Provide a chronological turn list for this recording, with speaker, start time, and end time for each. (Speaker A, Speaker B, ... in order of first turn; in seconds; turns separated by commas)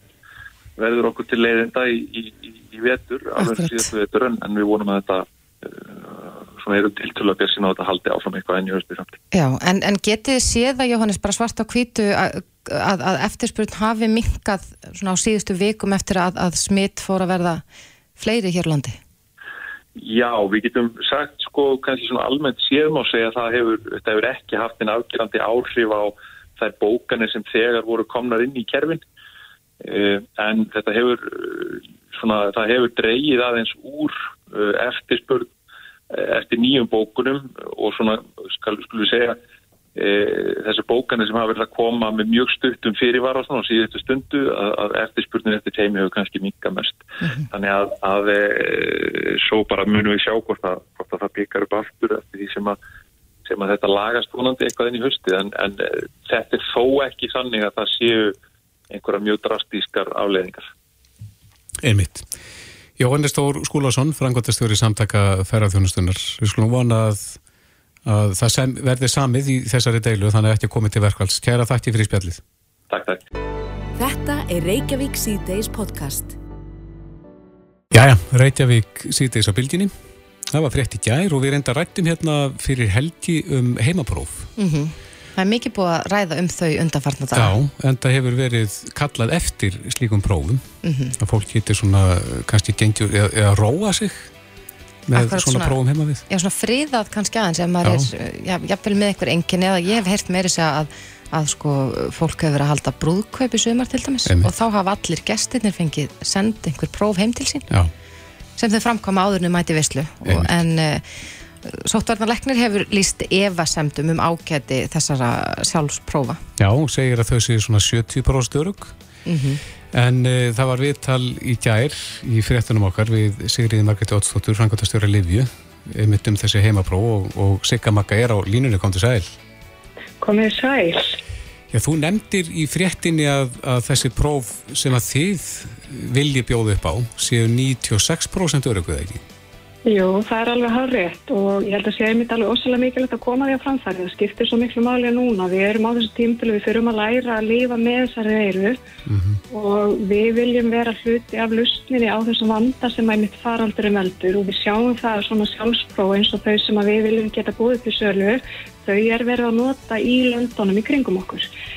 Speaker A: 0.8-9.2, Speaker B: 3.4-3.8, Speaker B: 9.3-17.6, Speaker B: 18.2-19.0, Speaker A: 19.9-29.0, Speaker A: 29.8-35.5, Speaker A: 36.1-39.4, Speaker A: 39.9-52.8, Speaker A: 53.4-58.3, Speaker A: 58.9-60.7, Speaker C: 61.8-62.2, Speaker C: 63.0-67.4, Speaker C: 68.0-72.4, Speaker A: 72.9-73.2, Speaker D: 74.0-76.3, Speaker C: 77.9-79.9, Speaker C: 80.5-84.5, Speaker B: 84.6-87.5, Speaker C: 87.3-90.7, Speaker B: 90.8-91.1, Speaker C: 91.2-94.3, Speaker C: 95.1-96.2, Speaker B: 95.1-95.7, Speaker B: 96.3-107.7, Speaker C: 97.8-98.1, Speaker C: 104.2-104.5, Speaker B: 108.6-116.4, Speaker C: 110.2-110.6, Speaker C: 116.6-118.9, Speaker B: 119.2-119.6, Speaker C: 119.9-129.3, Speaker E: 130.2-131.2, Speaker C: 131.7-139.2, Speaker E: 139.8-148.8, Speaker C: 149.1-149.4, Speaker E: 149.5-161.5